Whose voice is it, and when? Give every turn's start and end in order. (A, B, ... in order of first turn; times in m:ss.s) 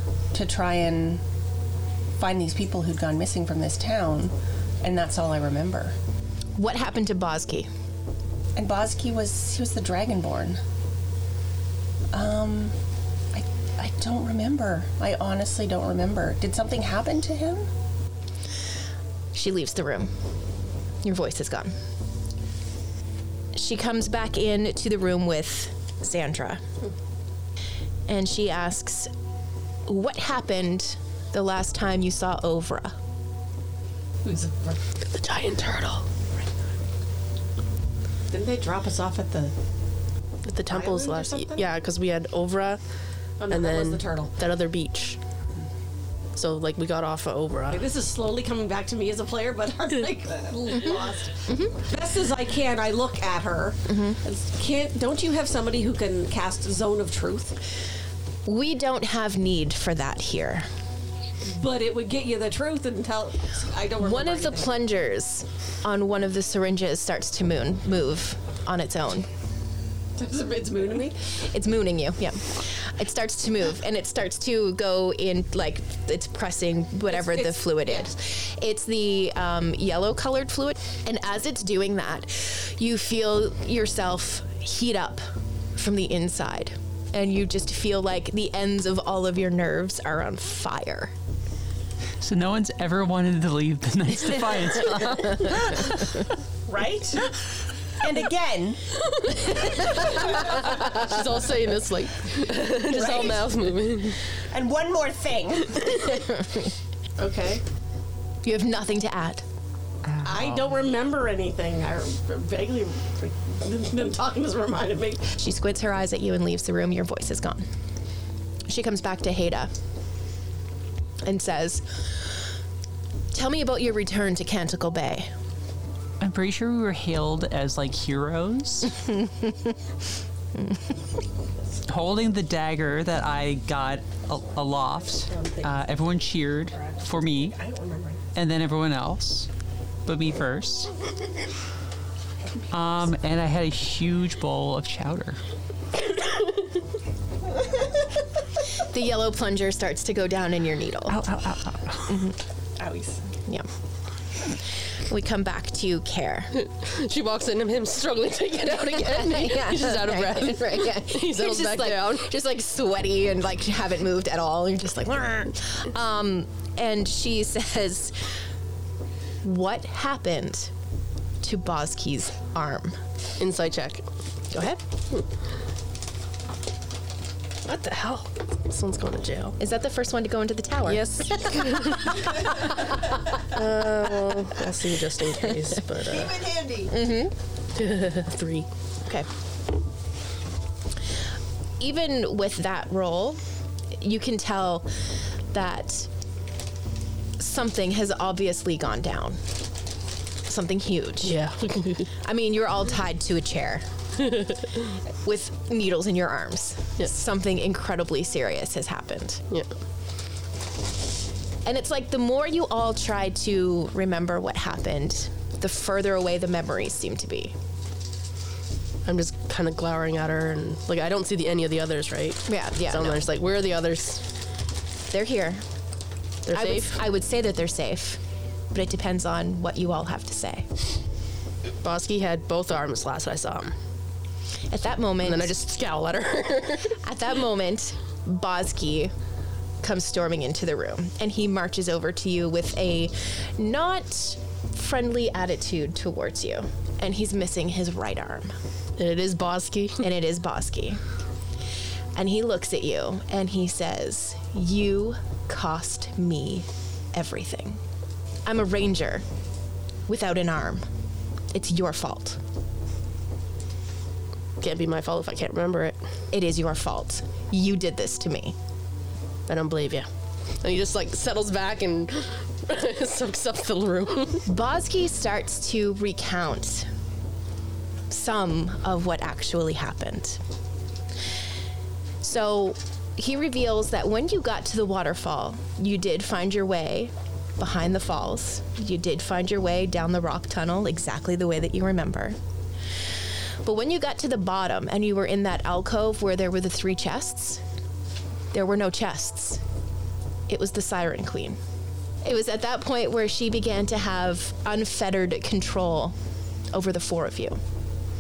0:00.3-0:01.2 A
0:02.2-0:06.0 A
0:06.6-0:07.7 B
0:08.6-0:10.6 A
0:12.1-0:12.8 A
0:13.3-0:17.7 A
0:19.3-0:20.1 B
0:21.0-0:21.7 B
0:23.5-0:26.6 B
0:28.1-0:29.1 B
0:29.9-0:33.0 B
0:34.2-0:34.8 C
0:35.0-0:36.1 D
0:38.3-0:39.5 C
0:40.4-0:42.8 D
0:40.7-0:41.7 C
0:43.4-0:44.4 C
0:43.5-0:45.2 D
0:46.4-0:47.8 D
0:47.7-0:57.6 C
0:51.5-0:51.8 B
0:53.9-0:54.2 B
0:58.4-1:00.7 B
1:01.4-1:04.7 C
1:04.0-1:09.3 B
1:10.2-1:11.2 C
1:11.5-1:25.2 B
1:17.1-1:18.1 C
1:25.8-1:31.1 B
1:32.2-1:36.2 E
1:36.7-1:37.4 A
1:38.0-1:40.1 A
1:40.3-1:44.2 D
1:42.9-1:43.7 A
1:44.5-1:46.2 A
1:47.2-1:47.6 C
1:48.4-1:49.4 B
1:50.1-1:50.7 E
1:50.2-1:55.4 C
1:55.4-1:57.6 B
1:58.7-1:59.7 B
2:01.2-2:02.5 B
2:03.3-2:05.3 B
2:06.2-2:09.0 E
2:09.2-2:09.7 B
2:11.9-2:17.6 E
2:15.2-2:15.7 C
2:16.8-2:18.2 C
2:18.3-2:19.5 E
2:20.1-2:20.9 E
2:22.7-2:25.4 E
2:28.8-2:31.2 B
2:31.1-2:32.1 E
2:32.1-2:32.4 B
2:32.8-2:33.3 A
2:35.1-2:36.5 B
2:36.5-2:42.3 D
2:38.7-2:48.2 B
2:49.4-2:50.7 B
2:51.4-2:53.0 B
2:53.4-2:55.2 D
2:57.6-2:59.6 D
2:59.6-3:01.9 B
3:00.9-3:06.6 D
3:06.9-3:07.4 B
3:07.8-3:08.7 D
3:11.8-3:13.4 B
3:13.9-3:14.9 B
3:15.5-3:16.1 B
3:17.4-3:19.4 B
3:20.5-3:21.4 B
3:21.2-3:22.1 D
3:22.2-3:23.9 B
3:24.2-3:24.9 D
3:25.2-3:29.4 B
3:31.6-3:37.5 B
3:39.0-3:44.2 D
3:42.5-3:43.2 B
3:45.1-3:45.6 B
3:46.5-3:47.0 D
3:46.5-3:48.2 B
3:48.7-3:50.7 B
3:51.8-3:53.7 D
3:54.7-3:55.6 B
3:55.2-3:57.0 D
3:56.9-3:59.1 B
3:59.8-4:08.5 B
4:09.0-4:10.1 D
4:10.0-4:11.0 B
4:12.2-4:17.8 B
4:18.4-4:19.2 B
4:20.1-4:20.8 B
4:21.5-4:22.4 B
4:24.6-4:26.0 D
4:26.3-4:28.6 B
4:29.5-4:30.1 D
4:30.6-4:34.4 D
4:34.5-4:36.9 B
4:38.1-4:40.4 B
4:42.2-4:52.4 B
4:53.6-4:57.6 B
4:58.5-4:59.6 B
5:00.5-5:01.6 B
5:02.2-5:06.2 B
5:06.7-5:07.6 B